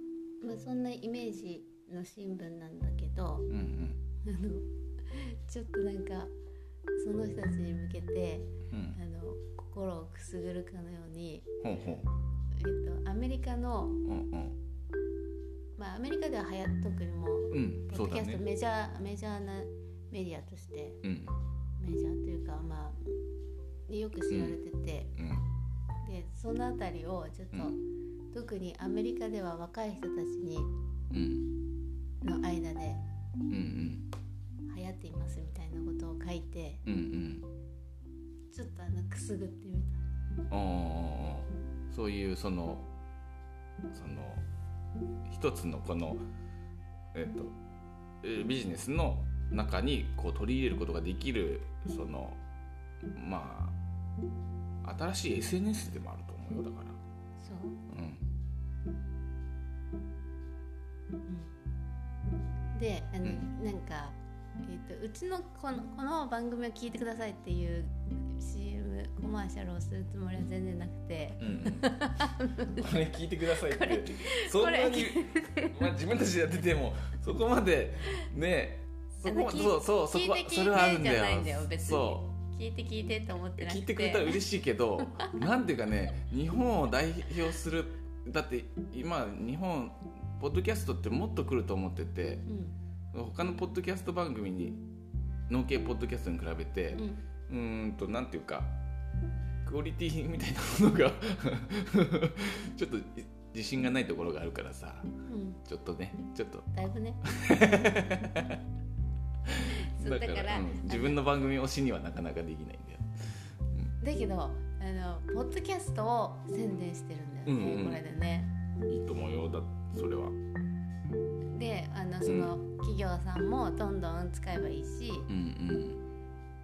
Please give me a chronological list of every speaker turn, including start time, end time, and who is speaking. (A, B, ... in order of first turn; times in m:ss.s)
0:00.4-0:03.5 A
0:03.5-0:04.0 B
0:04.2-0:06.3 A
0:07.0-0:11.5 A
0:08.7-0:09.0 B
0:11.6-0:12.1 B
0:12.5-0:14.0 A
0:14.0-0:14.6 B
0:15.8-0:21.0 A
0:17.5-0:18.4 B
0:21.0-0:21.4 B
0:21.8-0:23.2 A
0:23.9-0:25.1 A
0:24.3-0:24.6 B
0:25.2-0:25.4 B
0:26.0-0:27.8 A
0:28.3-0:30.7 A
0:31.1-0:31.5 B
0:32.2-0:33.0 A
0:33.5-0:34.1 B
0:34.7-0:36.8 A
0:36.8-0:37.5 B
0:38.5-0:40.0 A
0:40.5-0:42.9 B
0:43.9-0:44.4 B
0:45.2-0:46.2 B
0:47.1-0:47.6 B
0:48.2-0:52.4 B
0:53.1-0:53.8 B
0:54.8-0:57.0 B
0:57.4-0:57.8 A
0:57.9-0:58.2 B
1:01.3-1:01.6 A
1:02.7-1:15.9 A
1:11.4-1:11.9 B
1:12.7-1:22.2 B
1:19.2-1:24.4 A
1:23.6-1:32.4 B
1:25.0-1:25.4 A
1:32.4-1:32.8 A
1:33.1-1:34.8 B
1:35.5-1:38.8 B
1:36.9-1:37.2 A
1:39.6-1:45.1 B
1:45.3-1:45.6 A
1:45.6-1:46.7 B
1:46.7-1:47.2 A
1:47.2-1:48.6 B
1:49.4-1:53.9 B
1:49.6-1:51.2 A
1:54.0-1:58.5 A
1:57.4-1:58.0 B
1:58.9-2:00.4 B
2:01.5-2:05.3 A
2:02.2-2:02.6 B
2:05.3-2:06.0 B